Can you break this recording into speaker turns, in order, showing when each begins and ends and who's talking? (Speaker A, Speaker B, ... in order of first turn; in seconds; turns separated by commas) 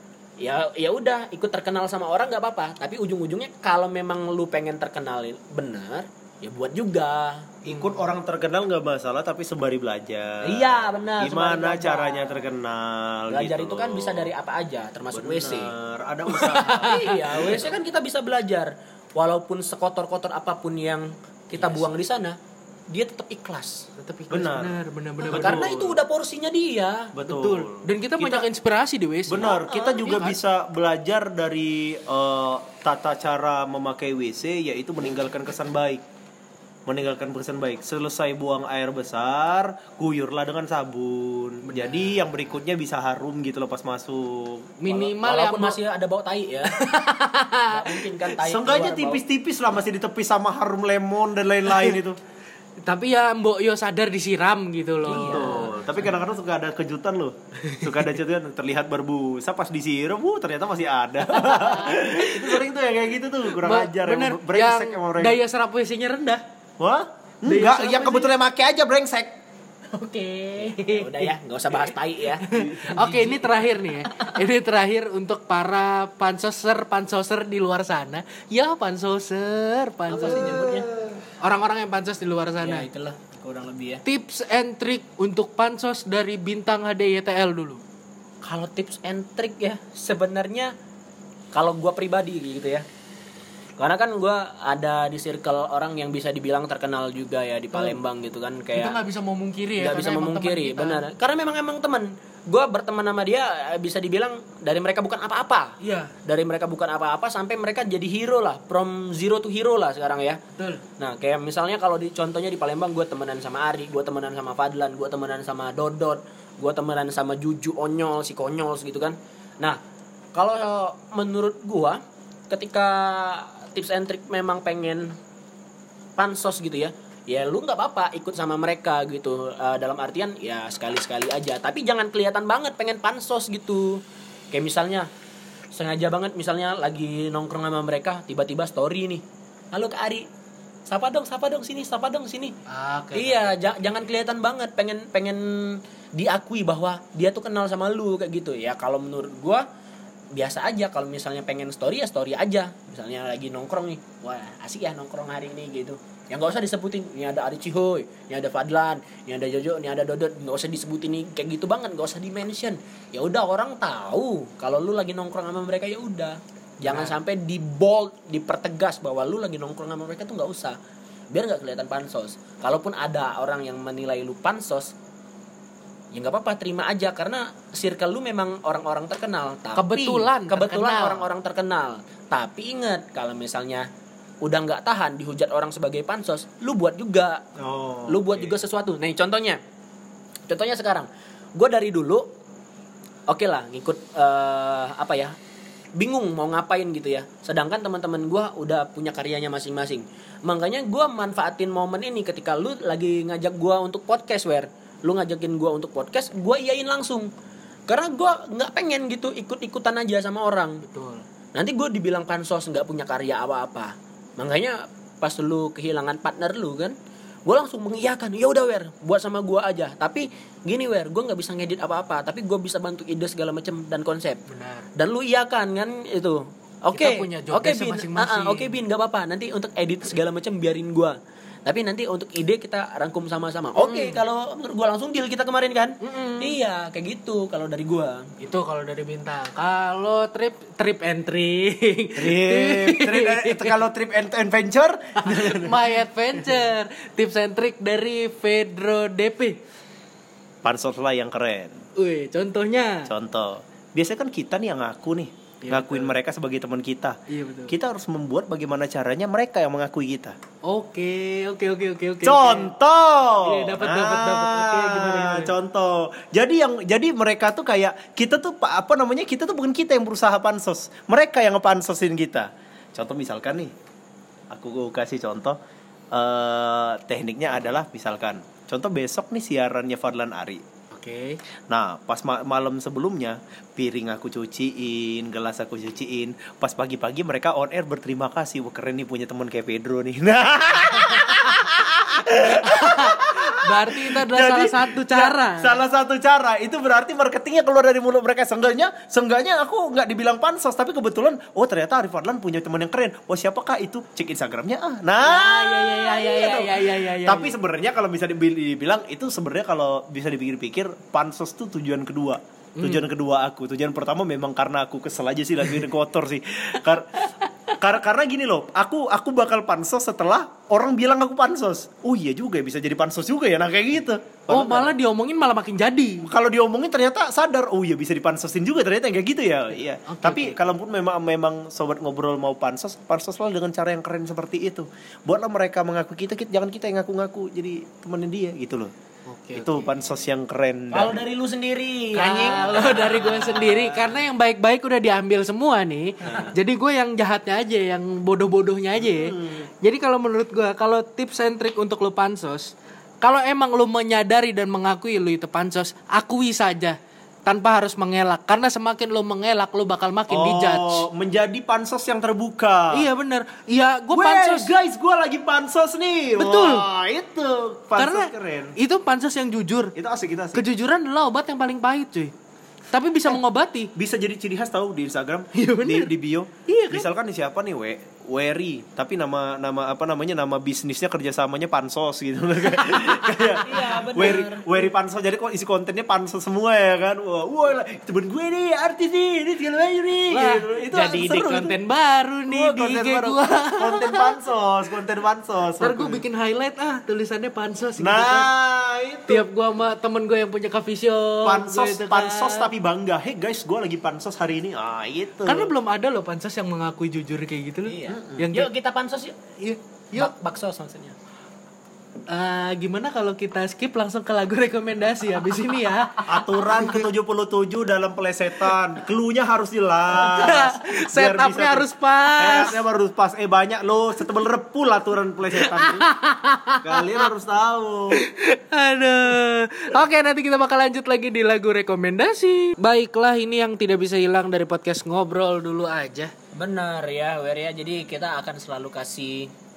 Speaker A: 0.4-7.5, Speaker B: 7.6-14.3, Speaker A: 10.4-12.5, Speaker A: 13.3-15.7, Speaker B: 15.1-17.7, Speaker C: 16.3-17.4, Speaker A: 16.8-22.4, Speaker A: 22.9-23.9, Speaker C: 23.9-25.9, Speaker B: 24.3-25.9, Speaker A: 25.2-27.1, Speaker B: 27.1-28.4, Speaker C: 27.2-30.4, Speaker B: 29.3-36.0, Speaker A: 29.7-30.0, Speaker B: 36.9-44.8, Speaker C: 41.6-42.2, Speaker C: 44.8-45.8, Speaker A: 44.9-47.0, Speaker C: 46.7-48.0, Speaker A: 47.7-49.2, Speaker B: 48.4-52.2, Speaker C: 52.8-55.7, Speaker A: 55.0-55.7, Speaker B: 55.1-65.4, Speaker C: 61.5-62.3, Speaker C: 63.6-66.4, Speaker B: 66.8-69.4, Speaker C: 67.5-68.3, Speaker C: 69.9-71.3, Speaker A: 70.7-74.3, Speaker C: 72.4-80.8, Speaker B: 72.6-72.9, Speaker A: 80.1-80.9, Speaker C: 81.4-82.9, Speaker A: 82.6-84.0, Speaker C: 84.0-87.8, Speaker A: 88.4-90.7, Speaker A: 91.5-92.8, Speaker A: 93.8-99.0, Speaker C: 98.7-101.0, Speaker A: 99.8-110.4, Speaker C: 105.8-106.1, Speaker C: 110.5-110.8, Speaker A: 111.0-119.8, Speaker A: 120.3-125.2, Speaker A: 126.2-135.1, Speaker A: 135.7-140.3, Speaker A: 140.9-142.5, Speaker C: 142.7-143.9, Speaker A: 143.1-149.7, Speaker A: 150.3-170.8, Speaker C: 166.8-167.2, Speaker A: 171.3-174.9, Speaker A: 176.1-183.9, Speaker C: 179.7-181.3, Speaker A: 184.4-187.4, Speaker B: 187.6-188.6, Speaker A: 188.1-189.6, Speaker A: 190.5-192.3, Speaker A: 193.3-195.3, Speaker A: 195.9-207.3, Speaker A: 207.9-210.8, Speaker C: 210.8-211.2, Speaker A: 211.5-224.4, Speaker C: 224.5-224.9, Speaker A: 224.9-238.3, Speaker C: 226.9-228.8, Speaker C: 233.8-234.2, Speaker C: 236.0-236.6, Speaker C: 238.4-243.7, Speaker B: 242.2-245.8, Speaker C: 245.2-249.6, Speaker B: 250.6-251.8, Speaker C: 251.9-253.1, Speaker B: 253.1-260.4, Speaker C: 255.6-256.1, Speaker C: 257.3-257.7, Speaker C: 260.6-262.7, Speaker B: 262.2-273.7, Speaker C: 263.3-265.5, Speaker B: 274.5-275.6, Speaker B: 276.1-280.6, Speaker C: 280.9-281.4, Speaker B: 281.7-317.2, Speaker C: 292.6-295.8, Speaker C: 305.2-307.5, Speaker C: 312.8-313.1, Speaker B: 317.8-324.9, Speaker C: 324.5-326.3, Speaker B: 326.2-338.9, Speaker C: 330.1-330.5, Speaker C: 339.3-339.9, Speaker B: 339.5-341.2, Speaker A: 340.9-343.9, Speaker C: 342.1-361.0, Speaker B: 349.0-349.7, Speaker B: 360.3-363.1, Speaker C: 362.9-364.7, Speaker B: 364.1-368.8, Speaker C: 366.4-366.9, Speaker C: 368.0-369.9, Speaker B: 369.9-370.6, Speaker C: 370.5-372.3, Speaker C: 372.9-373.9, Speaker B: 373.9-391.8, Speaker C: 375.5-376.1, Speaker C: 376.7-377.1, Speaker C: 382.7-384.2, Speaker A: 383.6-384.8, Speaker C: 390.3-394.3, Speaker B: 392.5-396.2, Speaker C: 395.8-398.5, Speaker B: 398.0-399.5, Speaker C: 399.3-402.7, Speaker B: 401.4-405.7, Speaker C: 405.4-408.7, Speaker A: 407.9-409.4, Speaker B: 408.1-408.5, Speaker C: 409.6-410.3, Speaker A: 410.1-411.1, Speaker C: 412.3-417.0, Speaker B: 416.2-426.1, Speaker C: 420.1-422.8, Speaker C: 425.6-427.3, Speaker B: 426.8-428.2, Speaker C: 428.1-436.3, Speaker A: 436.5-439.5